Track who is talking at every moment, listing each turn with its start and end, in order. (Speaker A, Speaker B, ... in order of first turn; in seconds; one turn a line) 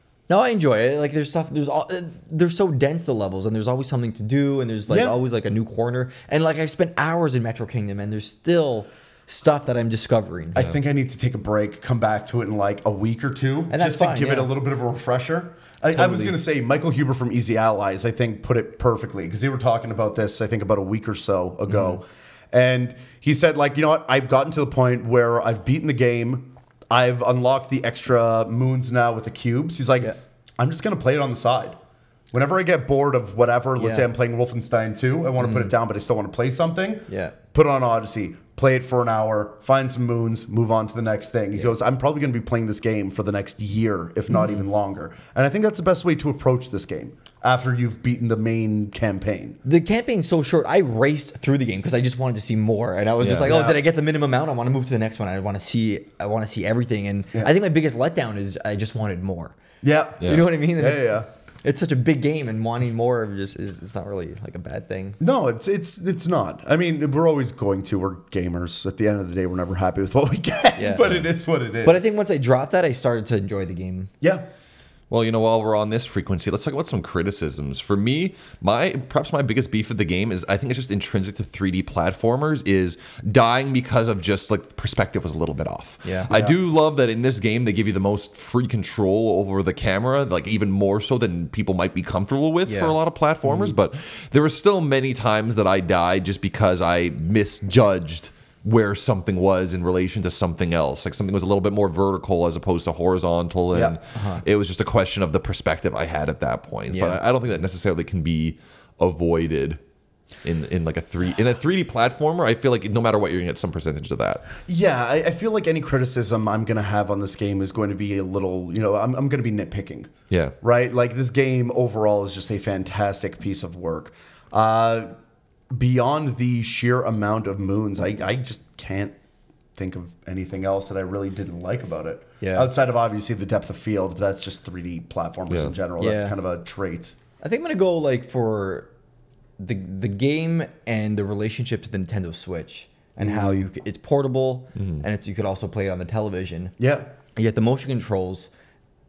Speaker A: 0.3-10.6
Speaker B: 4.9-5.2
Speaker B: 10.6-31.8
Speaker A: 13.7-14.5
Speaker A: 15.9-16.4
Speaker A: 21.7-22.0
Speaker B: 32.3-49.6
Speaker A: 33.8-34.1
Speaker A: 35.4-35.7
Speaker A: 37.1-37.4
Speaker A: 44.3-44.6
Speaker A: 49.6-59.5
Speaker C: 53.2-53.5
Speaker B: 53.4-53.8
Speaker B: 59.8-61.3
Speaker A: 60.2-65.2
Speaker B: 65.2-72.0
Speaker A: 70.8-71.1
Speaker A: 71.8-74.1
Speaker B: 74.2-74.5
Speaker C: 75.1-109.8
Speaker A: 86.0-86.3
Speaker B: 86.3-86.6
Speaker A: 92.7-93.0
Speaker B: 93.4-93.8
Speaker A: 104.1-104.4
Speaker A: 106.9-107.2
Speaker C: 110.4-114.5
Speaker B: 114.7-125.1
Speaker B: 125.7-129.2
Speaker B: 129.8-137.2
Speaker A: 132.4-132.7
Speaker A: 136.0-136.3
Speaker A: 137.4-138.9
Speaker A: 139.6-146.7
Speaker B: 143.2-143.7
Speaker C: 144.8-145.1
Speaker B: 146.8-147.1
Speaker A: 147.4-148.5